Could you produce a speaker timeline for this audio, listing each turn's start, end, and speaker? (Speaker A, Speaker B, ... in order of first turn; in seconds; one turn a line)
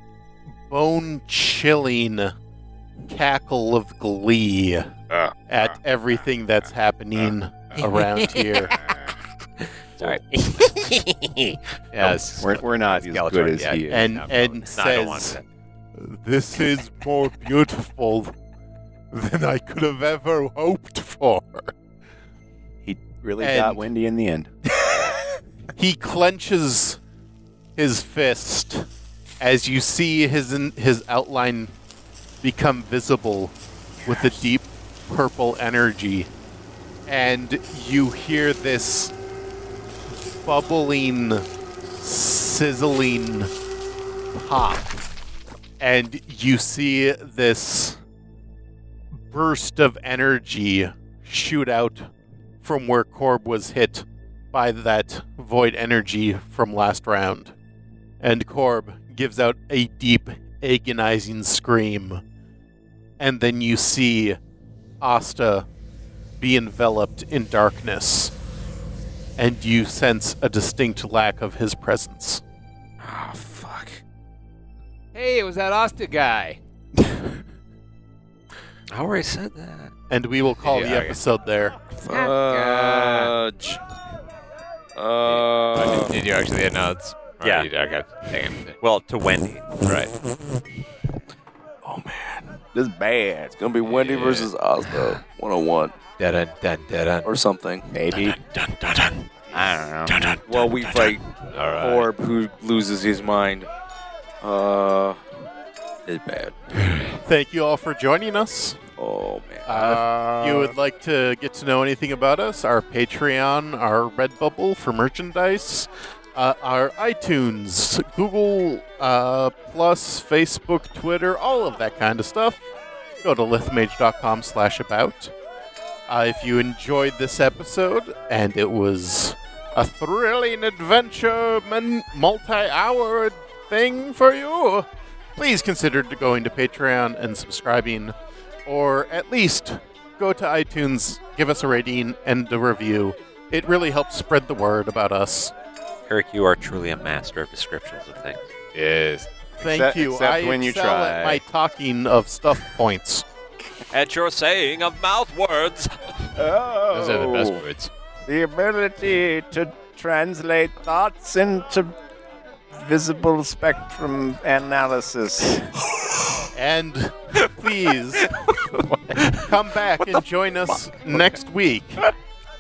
Speaker A: 0.7-2.3
Speaker A: 3.1-4.9
Speaker A: 5.5-8.8
Speaker B: 10.0-11.6
Speaker C: 11.9-14.6
Speaker D: 12.0-14.3
Speaker A: 13.9-15.4
Speaker B: 14.7-15.4
Speaker A: 16.0-18.3
Speaker A: 19.1-21.7
Speaker D: 22.8-24.5
Speaker A: 23.4-23.9
Speaker A: 24.9-25.1
Speaker A: 25.8-27.0
Speaker A: 27.8-28.9
Speaker A: 29.4-31.7
Speaker A: 32.4-36.3
Speaker A: 37.1-39.1
Speaker A: 40.4-43.5
Speaker A: 44.3-45.1
Speaker A: 45.8-48.0
Speaker A: 49.1-52.1
Speaker A: 52.6-57.5
Speaker A: 58.2-62.2
Speaker A: 63.2-64.4
Speaker A: 65.0-65.7
Speaker A: 66.4-68.3
Speaker A: 69.4-72.4
Speaker E: 73.0-74.0
Speaker C: 75.1-76.6
Speaker B: 78.9-79.9
Speaker A: 80.1-81.8
Speaker C: 80.6-81.2
Speaker E: 81.9-83.8
Speaker C: 82.1-83.3
Speaker E: 85.0-86.2
Speaker C: 85.2-88.8
Speaker B: 87.4-87.7
Speaker B: 88.8-89.7
Speaker C: 89.8-90.1
Speaker E: 91.8-92.6
Speaker D: 92.7-93.7
Speaker E: 93.6-96.0
Speaker C: 93.8-94.5
Speaker C: 96.2-97.3
Speaker E: 97.2-97.9
Speaker D: 97.9-101.2
Speaker E: 100.5-101.2
Speaker C: 101.5-102.1
Speaker E: 101.8-103.7
Speaker E: 104.4-105.2
Speaker E: 106.1-106.6
Speaker C: 106.8-107.2
Speaker A: 107.2-108.8
Speaker E: 109.0-110.0
Speaker A: 109.7-122.7
Speaker A: 123.2-125.3
Speaker A: 126.1-138.2
Speaker A: 138.7-145.5
Speaker B: 146.1-148.5
Speaker C: 148.7-149.3
Speaker D: 149.6-151.4
Speaker A: 149.6-153.3
Speaker B: 153.9-156.1
Speaker D: 156.3-157.7
Speaker C: 156.9-157.9
Speaker D: 158.3-162.0
Speaker D: 162.7-165.7
Speaker A: 166.5-168.3
Speaker C: 168.8-169.4
Speaker A: 169.3-172.1